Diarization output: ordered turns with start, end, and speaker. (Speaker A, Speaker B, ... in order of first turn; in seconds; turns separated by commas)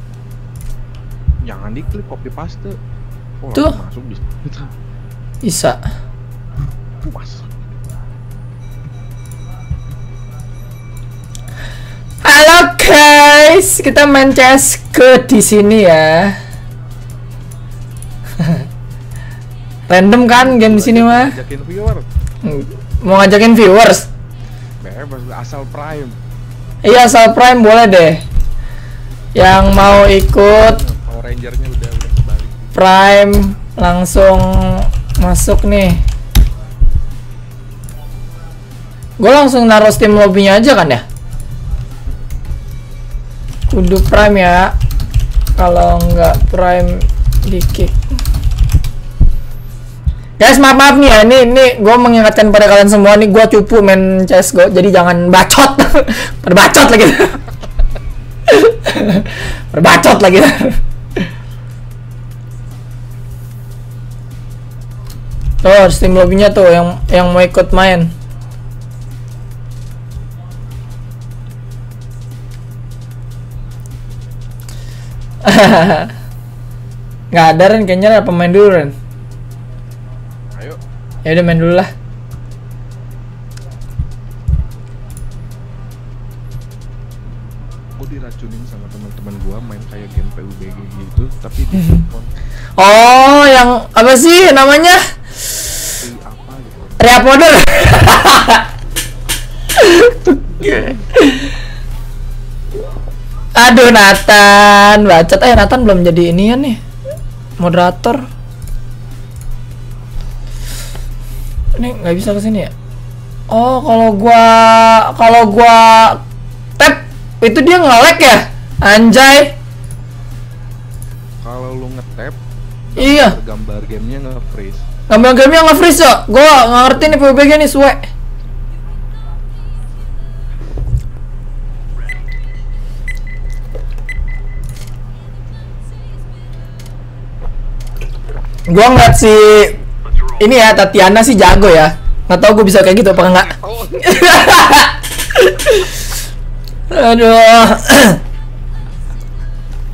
Speaker A: 1.4-2.8, Speaker A: 3.4-4.7, Speaker B: 5.4-5.8, Speaker A: 7.0-7.5, Speaker B: 12.2-16.4, Speaker B: 19.9-21.3, Speaker A: 20.3-22.0, Speaker B: 22.4-24.1, Speaker A: 24.8-26.2, Speaker B: 26.8-28.2, Speaker B: 29.4-30.8, Speaker A: 30.4-32.7, Speaker B: 32.7-36.0, Speaker B: 39.2-41.0, Speaker B: 43.7-44.7, Speaker B: 45.6-47.9, Speaker B: 50.4-57.4, Speaker B: 58.5-61.2, Speaker B: 65.6-68.1, Speaker B: 75.4-76.1, Speaker B: 77.3-78.9, Speaker A: 80.5-80.8, Speaker B: 81.2-81.9, Speaker A: 88.0-92.3, Speaker B: 92.8-95.0, Speaker A: 96.0-97.0, Speaker B: 97.0-98.7, Speaker B: 99.8-101.5, Speaker B: 103.5-106.8, Speaker B: 107.6-108.2, Speaker B: 111.8-112.7, Speaker B: 113.5-116.2, Speaker B: 116.8-119.5, Speaker A: 121.4-122.4, Speaker A: 122.9-124.8, Speaker B: 123.0-123.4, Speaker B: 125.1-128.0, Speaker B: 138.7-139.8, Speaker B: 140.4-146.0, Speaker A: 143.3-144.1, Speaker B: 146.9-148.2